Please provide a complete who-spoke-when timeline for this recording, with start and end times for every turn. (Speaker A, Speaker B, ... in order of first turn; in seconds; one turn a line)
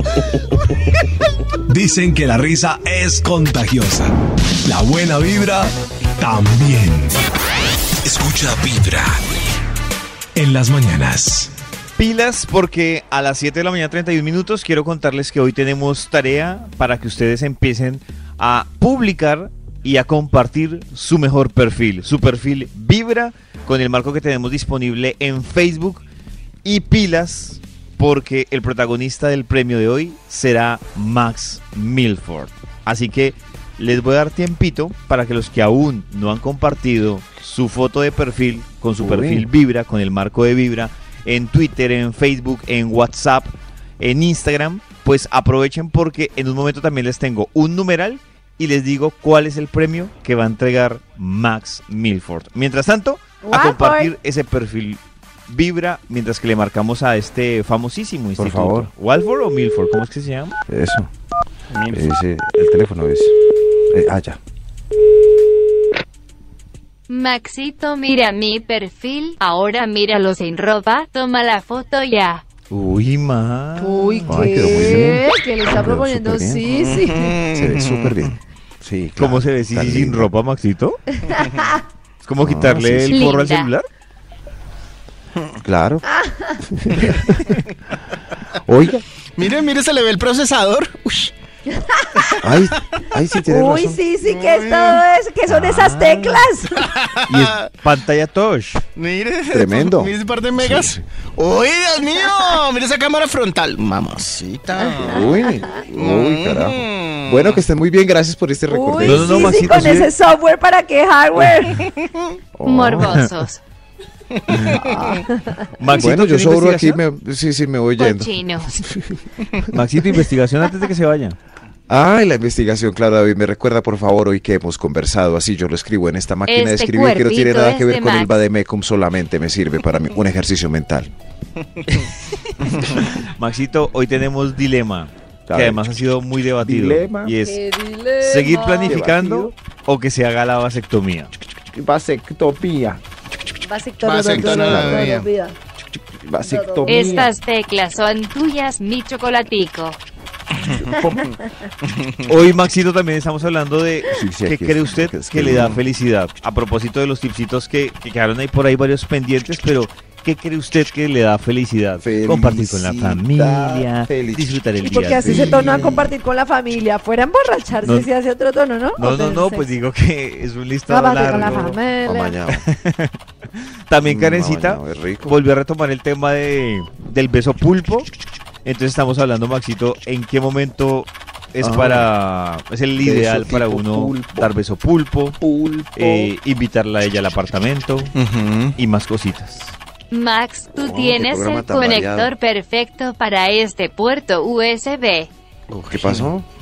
Speaker A: 1.7-4.1
Speaker A: 4.6-7.2
Speaker A: 8.0-9.3
Speaker A: 10.4-11.5
Speaker B: 12.0-26.1
Speaker B: 26.6-60.6
Speaker C: 39.0-39.5
Speaker D: 53.4-54.1
Speaker C: 58.4-58.9
Speaker C: 60.7-61.1
Speaker E: 61.7-62.1
Speaker C: 61.9-63.3
Speaker C: 63.9-64.4
Speaker F: 67.1-72.4
Speaker B: 72.7-74.6
Speaker D: 73.8-77.4
Speaker C: 74.3-76.6
Speaker E: 76.8-78.2
Speaker C: 77.5-80.3
Speaker B: 79.2-81.0
Speaker D: 81.3-81.7
Speaker B: 82.2-83.9
Speaker C: 82.4-83.3
Speaker F: 83.1-83.7
Speaker C: 85.6-86.0
Speaker D: 86.1-86.6
Speaker C: 86.6-87.6
Speaker C: 88.6-89.0
Speaker E: 89.3-91.3
Speaker D: 91.8-92.2
Speaker C: 92.4-94.0
Speaker D: 93.5-96.8
Speaker E: 94.2-95.0
Speaker B: 95.5-96.5
Speaker E: 96.8-97.7
Speaker B: 97.3-98.8
Speaker E: 99.0-105.3
Speaker C: 99.5-101.0
Speaker C: 105.0-110.0
Speaker D: 105.1-105.5
Speaker E: 106.0-107.6
Speaker D: 108.7-111.9
Speaker B: 109.0-110.1
Speaker C: 112.6-113.3
Speaker F: 112.7-113.6
Speaker B: 112.9-113.3
Speaker E: 114.4-115.2
Speaker B: 114.5-115.2
Speaker D: 114.7-115.6
Speaker B: 115.8-117.0
Speaker C: 115.9-119.2
Speaker F: 118.0-118.7
Speaker B: 119.7-121.4
Speaker C: 121.9-131.1
Speaker F: 126.5-128.4
Speaker E: 132.7-133.1
Speaker B: 133.1-137.6
Speaker C: 135.5-135.8
Speaker C: 136.6-137.3
Speaker D: 137.4-139.0
Speaker B: 138.2-141.3
Speaker C: 138.9-139.5
Speaker C: 141.7-143.0
Speaker D: 143.6-145.6
Speaker E: 144.0-145.3
Speaker C: 144.2-145.1
Speaker C: 146.2-147.3
Speaker D: 146.4-147.3
Speaker F: 146.9-150.0
Speaker E: 150.6-151.3
Speaker C: 150.7-151.3
Speaker E: 151.8-152.2
Speaker B: 152.3-165.9
Speaker C: 154.1-155.8
Speaker C: 162.0-166.1
Speaker D: 164.8-169.7
Speaker B: 167.8-168.1
Speaker B: 169.0-171.8
Speaker D: 170.9-172.4
Speaker C: 171.3-172.7
Speaker B: 172.6-173.2
Speaker B: 173.9-178.1
Speaker C: 174.0-175.4
Speaker B: 178.6-185.4
Speaker C: 181.6-182.1
Speaker C: 183.0-184.6
Speaker C: 185.4-186.3
Speaker B: 186.0-188.1
Speaker E: 188.2-188.8
Speaker B: 188.8-189.8
Speaker F: 190.1-195.3
Speaker C: 190.8-192.3
Speaker E: 195.7-196.3
Speaker C: 195.9-196.5